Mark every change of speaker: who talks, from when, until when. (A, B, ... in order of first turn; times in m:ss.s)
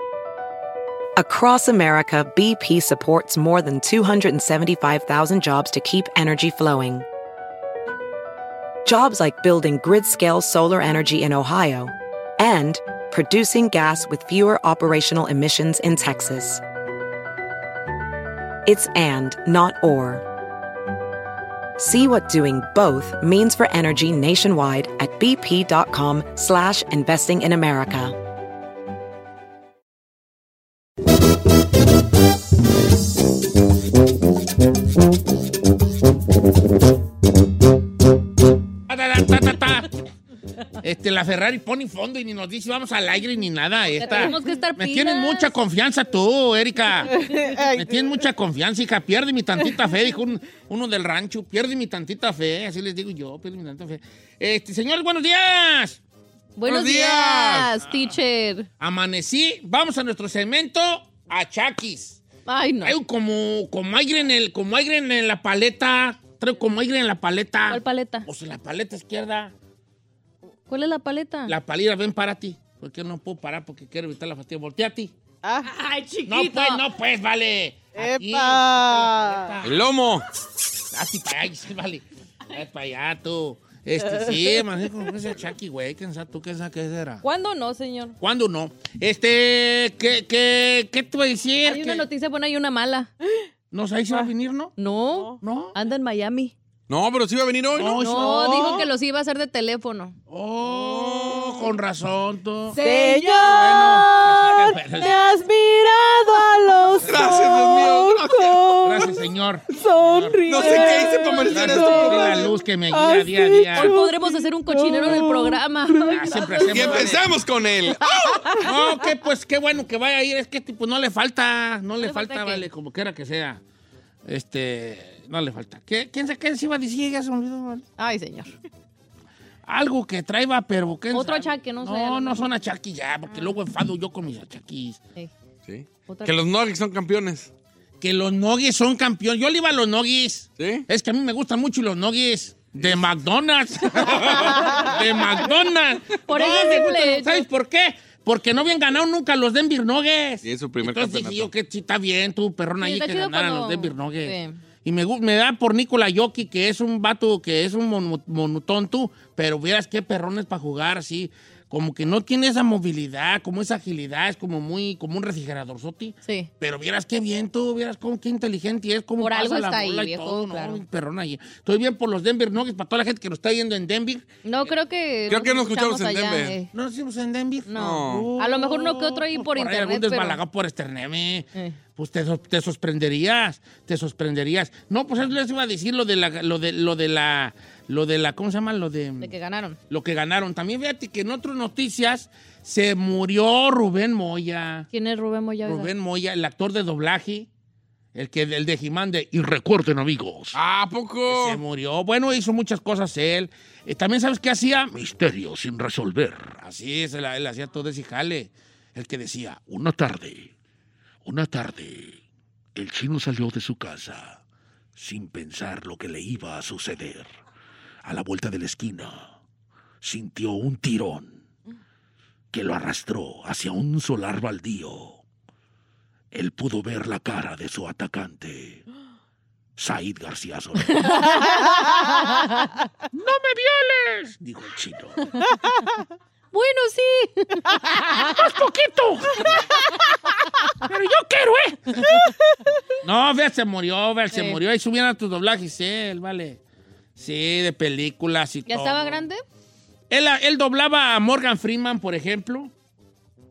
0:01.2-0:07.0 A
0:08.8-0:16.6 A
0:18.6-0:20.2 A
0:21.8-0:28.2 A
0:38.9-0:40.0 B
0:40.8-0:56.0 B
0:44.0-0:45.5 C
0:47.1-0:48.2 D
0:56.6-0:58.7 C
0:56.6-0:57.7 E
0:58.8-1:02.2 B
1:02.5-1:02.9 C
1:02.8-1:09.5 B
1:07.7-1:08.3 C
1:10.7-1:11.5 C
1:11.5-1:15.1 B
1:15.4-1:15.7 D
1:15.6-1:16.8 C
1:16.3-1:19.8 B
1:18.0-1:19.5 D
1:19.6-1:20.2 E
1:20.9-1:27.2 B
1:27.2-1:28.2 C
1:28.2-1:32.0 B
1:31.6-1:33.1 C
1:33.7-1:34.7 B
1:34.8-1:36.5 C
1:35.1-1:35.4 D
1:35.4-1:35.7 B
1:36.9-1:38.0 E
1:37.7-1:38.8 B
1:37.8-1:40.1 C
1:38.0-1:38.8 D
1:40.3-1:42.8 B
1:40.7-1:41.6 E
1:42.7-1:43.8 C
1:42.7-1:56.7 D
1:43.4-1:45.1 B
1:47.0-1:48.7 E
1:48.8-1:50.9 B
1:50.5-1:52.5 E
1:50.6-1:52.1 C
1:51.5-1:53.9 B
1:53.7-1:57.2 C
1:56.1-1:57.3 B
1:56.7-1:58.8 E
1:58.5-2:03.6 B
2:02.0-2:02.7 C
2:04.2-2:07.8 B
2:08.0-2:08.5 C
2:09.6-2:15.0 B
2:11.1-2:12.5 C
2:15.6-2:17.5 E
2:16.1-2:16.4 C
2:18.0-2:54.7 B
2:20.6-2:20.8 E
2:22.8-2:23.0 E
2:24.2-2:24.9 C
2:26.1-2:27.4 C
2:30.4-2:31.5 E
2:32.8-2:34.6 C
2:46.2-2:46.5 C
2:49.2-2:50.8 C
2:54.4-2:56.7 C
2:55.3-2:56.6 E
2:56.7-3:09.3 B
2:57.6-3:00.4 C
2:57.7-2:58.3 E
3:09.2-3:09.8 C
3:09.9-3:14.9 B
3:14.9-3:15.9 C
3:15.6-3:17.5 B
3:18.1-3:20.6 B
3:20.5-3:21.6 E
3:21.3-3:30.5 B
3:31.2-3:32.2 B
3:32.7-3:34.4 B
3:35.0-3:37.3 B
3:38.0-3:39.3 B
3:40.0-3:41.4 B
3:42.5-3:45.2 B
3:46.3-3:48.8 B
3:49.8-3:51.4 B
3:50.8-3:52.7 C
3:53.1-3:55.3 B
3:56.5-3:57.8 C
3:57.8-3:59.8 B
4:00.8-4:02.3 B
4:03.0-4:06.6 B
4:04.3-4:04.6 C
4:07.2-4:09.2 B
4:08.7-4:09.4 C
4:10.1-4:12.7 B